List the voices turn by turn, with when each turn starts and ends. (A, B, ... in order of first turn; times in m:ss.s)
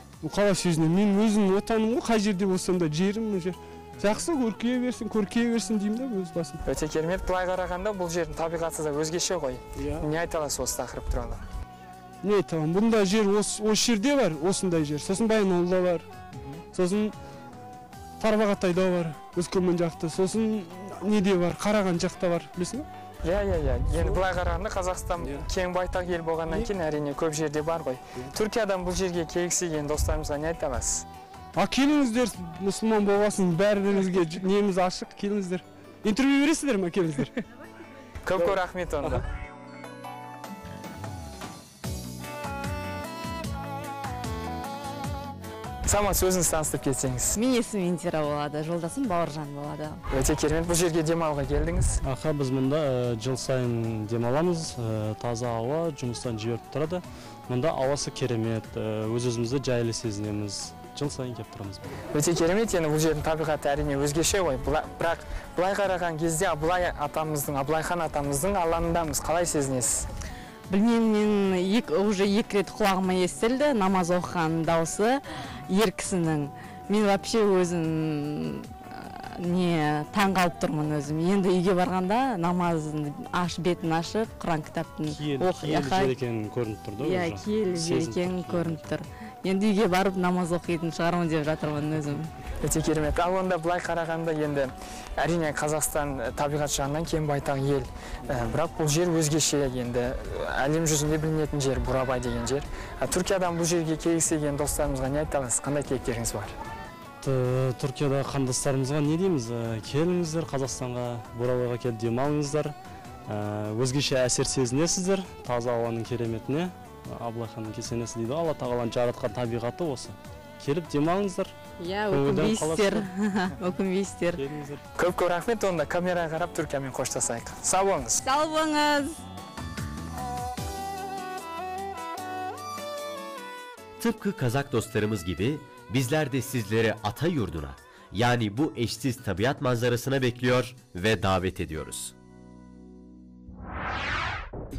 0:00.2-0:06.6 A
0:06.6-0:11.4 B
0:09.8-0:10.0 A
0:12.2-0:16.1 A
0:16.7-0:17.1 A
0:18.2-0:22.9 A
0:23.2-0:31.0 B
0:31.6-0:37.4 A
0:38.2-0:39.2 B
0:45.8-0:47.4 B
0:47.3-0:50.0 C
0:50.1-0:52.0 B
0:52.0-1:01.8 D
1:02.1-1:10.1 B
1:10.7-1:26.1 C
1:25.1-1:28.8 D
1:27.0-1:32.3 C
1:32.6-1:46.5 B
1:47.2-1:52.8 D
1:53.3-2:01.5 D
2:01.8-2:04.4 C
2:02.1-2:03.1 D
2:04.4-2:04.8 D
2:05.0-2:08.2 B
2:08.2-2:09.2 C
2:14.0-2:22.1 E